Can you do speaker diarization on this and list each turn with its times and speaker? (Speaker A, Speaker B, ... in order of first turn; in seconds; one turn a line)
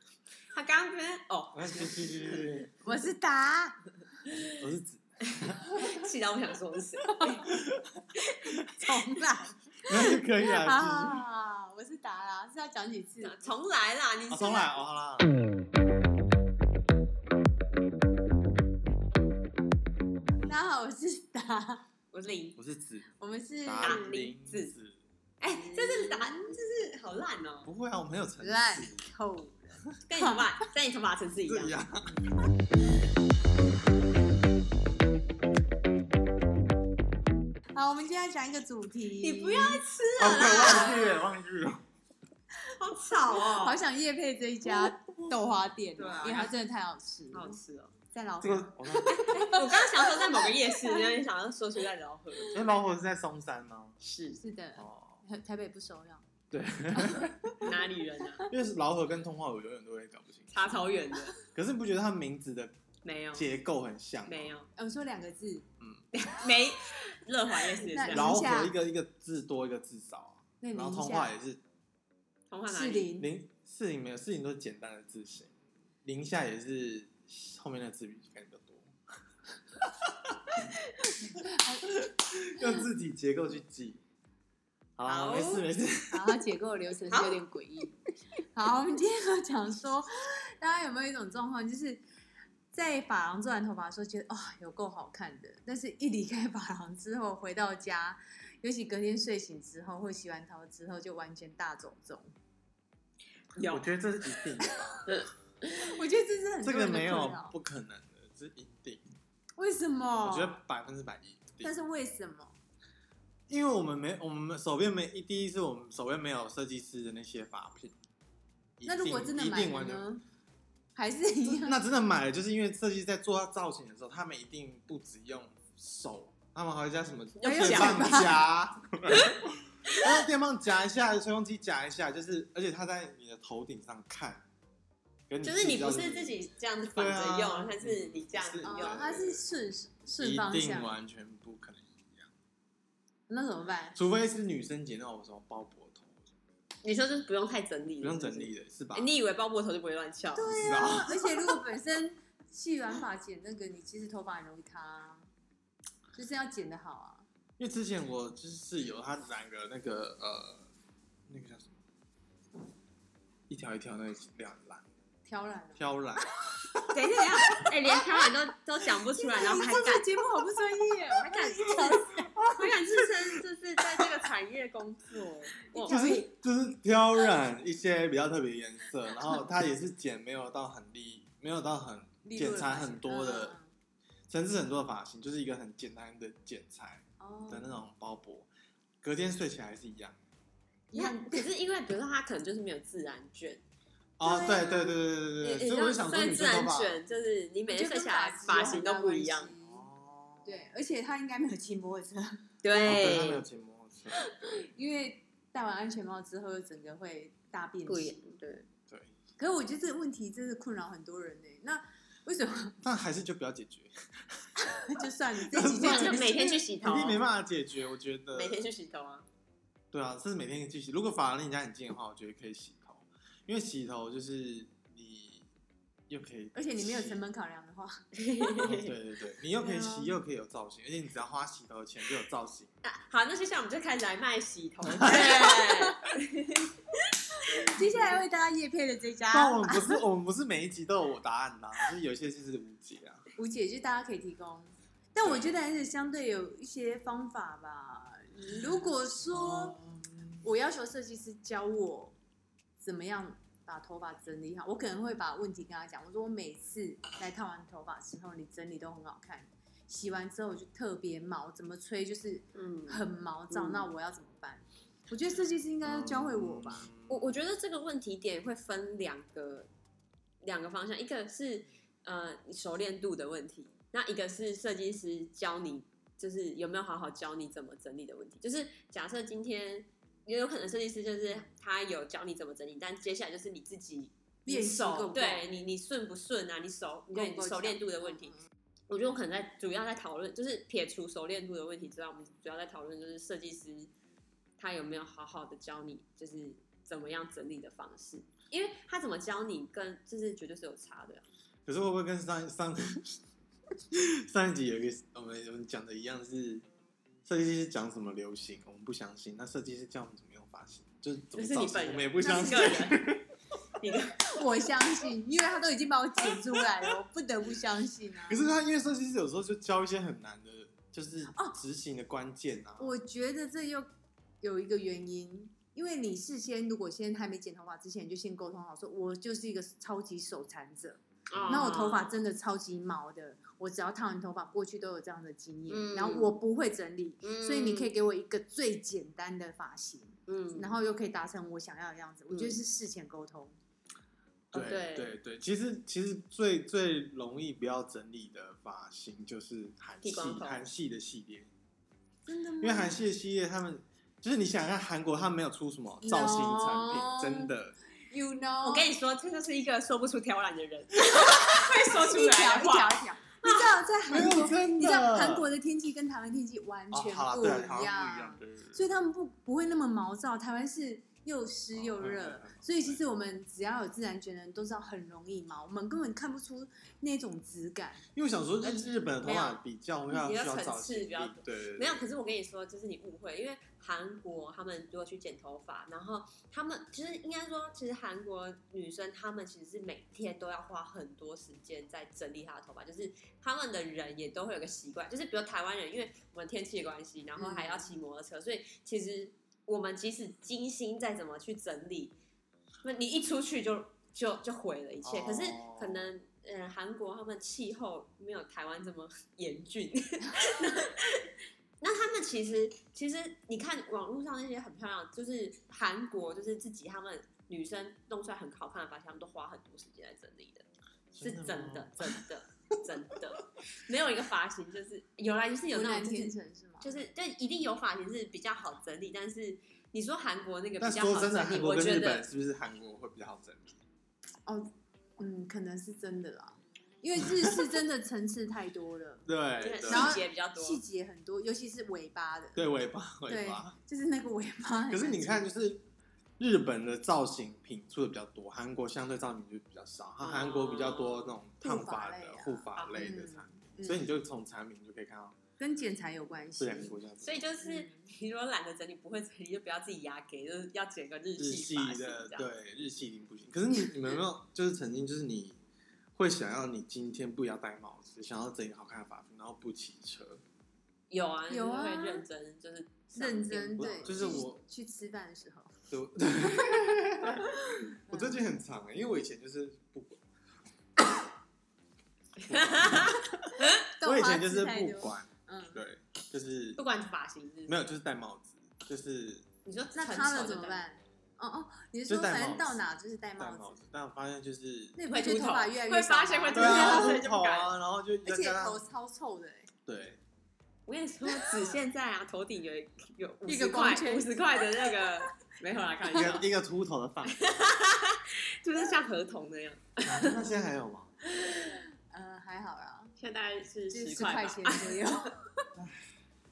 Speaker A: 0.5-2.5
Speaker B: 1.6-2.7
Speaker C: 2.8-3.8
Speaker B: 4.6-5.9
Speaker A: 5.4-7.5
Speaker B: 7.5-9.0
Speaker A: 8.2-8.5
Speaker C: 8.8-13.5
Speaker B: 9.9-11.2
Speaker A: 13.2-14.8
Speaker B: 14.3-15.3
Speaker C: 20.4-21.8
Speaker A: 22.1-22.6
Speaker B: 22.6-23.1
Speaker C: 23.2-24.1
Speaker B: 23.6-25.0
Speaker A: 23.8-24.7
Speaker A: 25.4-27.7
Speaker C: 25.5-26.4
Speaker B: 27.7-29.1
Speaker C: 28.4-30.5
Speaker A: 30.1-31.8
Speaker B: 31.5-32.1
Speaker C: 37.7-39.8
Speaker A: 39.2-41.2
Speaker B: 40.2-41.9
Speaker A: 42.8-43.8
Speaker C: 43.4-47.6
Speaker B: 44.7-45.3
Speaker A: 46.0-46.5
Speaker B: 46.1-46.5
Speaker A: 47.3-48.0
Speaker C: 48.1-51.1
Speaker B: 48.4-49.3
Speaker A: 49.1-52.7
Speaker B: 52.5-54.0
Speaker A: 54.0-54.4
Speaker C: 54.4-56.2
Speaker B: 54.8-55.2
Speaker B: 56.5-57.6
Speaker C: 57.0-57.8
Speaker A: 57.6-58.5
Speaker B: 58.5-60.9
Speaker A: 60.5-61.4
Speaker B: 61.5-62.7
Speaker A: 63.0-63.5
Speaker B: 63.3-64.5
Speaker A: 64.3-64.7
Speaker C: 64.8-65.7
Speaker B: 65.8-66.0
Speaker A: 66.2-68.3
Speaker C: 67.8-68.7
Speaker B: 68.1-71.6
Speaker C: 70.6-71.3
Speaker A: 72.5-73.1
Speaker C: 72.7-73.3
Speaker B: 73.2-75.5
Speaker B: 76.0-78.9
Speaker B: 79.8-80.6
Speaker C: 81.1-81.9
Speaker B: 81.4-84.0
Speaker B: 85.0-86.4
Speaker A: 85.1-85.7
Speaker C: 86.1-87.9
Speaker A: 87.1-87.4
Speaker C: 88.5-92.0
Speaker C: 92.7-102.3
Speaker A: 103.5-103.8
Speaker B: 103.7-105.0
Speaker A: 105.1-105.9
Speaker C: 105.7-107.5
Speaker B: 106.6-109.1
Speaker C: 109.6-110.6
Speaker B: 110.2-111.7
Speaker C: 111.6-112.5
Speaker B: 113.5-118.0
Speaker B: 118.8-120.1
Speaker C: 118.9-120.2
Speaker C: 121.0-121.8
Speaker B: 121.5-134.4
Speaker A: 127.4-128.3
Speaker C: 127.4-128.4
Speaker A: 129.1-130.1
Speaker B: 135.3-136.4
Speaker A: 135.4-139.1
Speaker B: 136.9-139.5
Speaker C: 138.6-140.9
Speaker B: 140.2-142.3
Speaker C: 143.3-144.0
Speaker B: 143.9-146.2
Speaker A: 146.8-150.7
Speaker B: 148.0-149.1
Speaker C: 150.3-155.3
Speaker B: 150.5-151.2
Speaker C: 156.1-157.3
Speaker B: 157.6-160.7
Speaker B: 161.3-161.8
Speaker B: 163.5-164.8
Speaker C: 165.3-165.8
Speaker B: 165.8-167.7
Speaker A: 166.9-170.1
Speaker C: 169.1-172.4
Speaker A: 171.2-176.2
Speaker B: 171.7-173.4
Speaker C: 175.7-176.3
Speaker B: 175.9-183.6
Speaker C: 182.2-183.7
Speaker B: 184.3-188.5
Speaker C: 187.2-187.8
Speaker B: 189.0-190.2
Speaker C: 190.9-191.5
Speaker A: 190.9-193.6
Speaker B: 194.2-197.0
Speaker C: 194.2-194.9
Speaker A: 195.4-199.5
Speaker C: 197.7-199.8
Speaker B: 199.6-200.7
Speaker C: 200.4-202.4
Speaker A: 202.6-203.4
Speaker B: 202.8-204.7
Speaker C: 204.2-208.2
Speaker A: 207.9-208.7
Speaker C: 209.4-212.8
Speaker B: 212.8-214.5
Speaker C: 214.6-216.5
Speaker B: 215.4-218.7
Speaker A: 215.8-217.2
Speaker A: 218.3-219.3
Speaker B: 219.9-225.5
Speaker B: 226.1-227.2
Speaker C: 226.6-227.9
Speaker A: 228.2-228.9
Speaker B: 228.6-232.7
Speaker C: 229.6-230.2
Speaker A: 232.8-236.7
Speaker B: 234.9-235.4
Speaker C: 235.1-236.0
Speaker C: 237.4-240.0
Speaker B: 239.3-243.2
Speaker C: 243.4-249.8
Speaker B: 245.2-245.6
Speaker B: 249.3-250.4
Speaker C: 250.4-252.2
Speaker C: 252.8-266.9
Speaker A: 262.6-263.9
Speaker B: 265.8-267.2
Speaker A: 267.1-269.7
Speaker A: 270.4-288.4
Speaker C: 284.5-285.4
Speaker C: 287.1-287.8
Speaker A: 288.9-293.9
Speaker A: 294.6-301.3
Speaker B: 301.7-303.2
Speaker B: 303.9-306.6
Speaker B: 307.3-313.3
Speaker A: 311.4-313.0
Speaker C: 312.2-312.9
Speaker A: 313.8-314.4
Speaker C: 314.3-318.4
Speaker B: 318.3-322.9
Speaker C: 322.8-323.9
Speaker C: 324.4-343.6
Speaker A: 331.3-332.1
Speaker B: 331.4-331.7
Speaker A: 335.7-336.4
Speaker A: 337.2-337.9
Speaker A: 340.3-340.7
Speaker A: 342.3-342.6
Speaker B: 344.5-351.5
Speaker A: 344.5-345.2
Speaker A: 350.0-350.6
Speaker C: 352.3-353.0
Speaker B: 352.6-357.8
Speaker C: 356.0-357.5
Speaker C: 358.1-358.9
Speaker A: 358.6-363.8
Speaker C: 361.4-378.1
Speaker B: 364.1-365.5
Speaker B: 366.9-368.8
Speaker B: 371.7-373.0
Speaker B: 378.1-382.0
Speaker A: 378.6-402.1
Speaker C: 397.4-397.9
Speaker A: 402.8-411.3
Speaker B: 405.0-406.1
Speaker A: 411.8-420.6
Speaker B: 421.1-422.3
Speaker A: 421.2-432.2
Speaker C: 425.7-426.9
Speaker B: 430.8-433.8
Speaker C: 434.5-439.3
Speaker B: 437.2-437.6
Speaker B: 439.3-440.2
Speaker A: 439.6-440.8
Speaker C: 439.9-442.6
Speaker B: 442.6-443.8
Speaker C: 443.3-445.5
Speaker B: 444.9-445.9
Speaker B: 446.4-455.4
Speaker A: 450.2-451.4
Speaker C: 451.6-454.1
Speaker A: 452.8-453.0
Speaker C: 455.6-457.0
Speaker B: 456.6-457.4
Speaker A: 457.2-462.5
Speaker C: 457.6-458.1
Speaker B: 461.4-465.6
Speaker B: 466.2-470.4
Speaker A: 471.1-474.4
Speaker C: 471.5-472.2
Speaker C: 473.1-475.7
Speaker B: 473.8-474.6
Speaker B: 475.9-480.2
Speaker C: 478.1-478.4
Speaker B: 482.5-486.8
Speaker A: 482.5-483.8
Speaker C: 483.6-485.8
Speaker A: 486.8-487.8
Speaker B: 487.7-489.5
Speaker A: 489.6-490.8
Speaker C: 489.9-493.8
Speaker B: 492.1-492.8
Speaker B: 493.4-495.0
Speaker C: 495.0-497.2
Speaker A: 495.1-497.7
Speaker B: 496.5-498.8
Speaker C: 498.2-499.7
Speaker B: 499.9-500.2
Speaker A: 500.9-506.5
Speaker C: 503.5-504.6
Speaker B: 506.1-507.4
Speaker A: 507.3-510.4
Speaker B: 510.1-511.1
Speaker A: 511.4-511.7
Speaker C: 512.1-513.1
Speaker A: 513.2-515.3
Speaker C: 513.9-515.4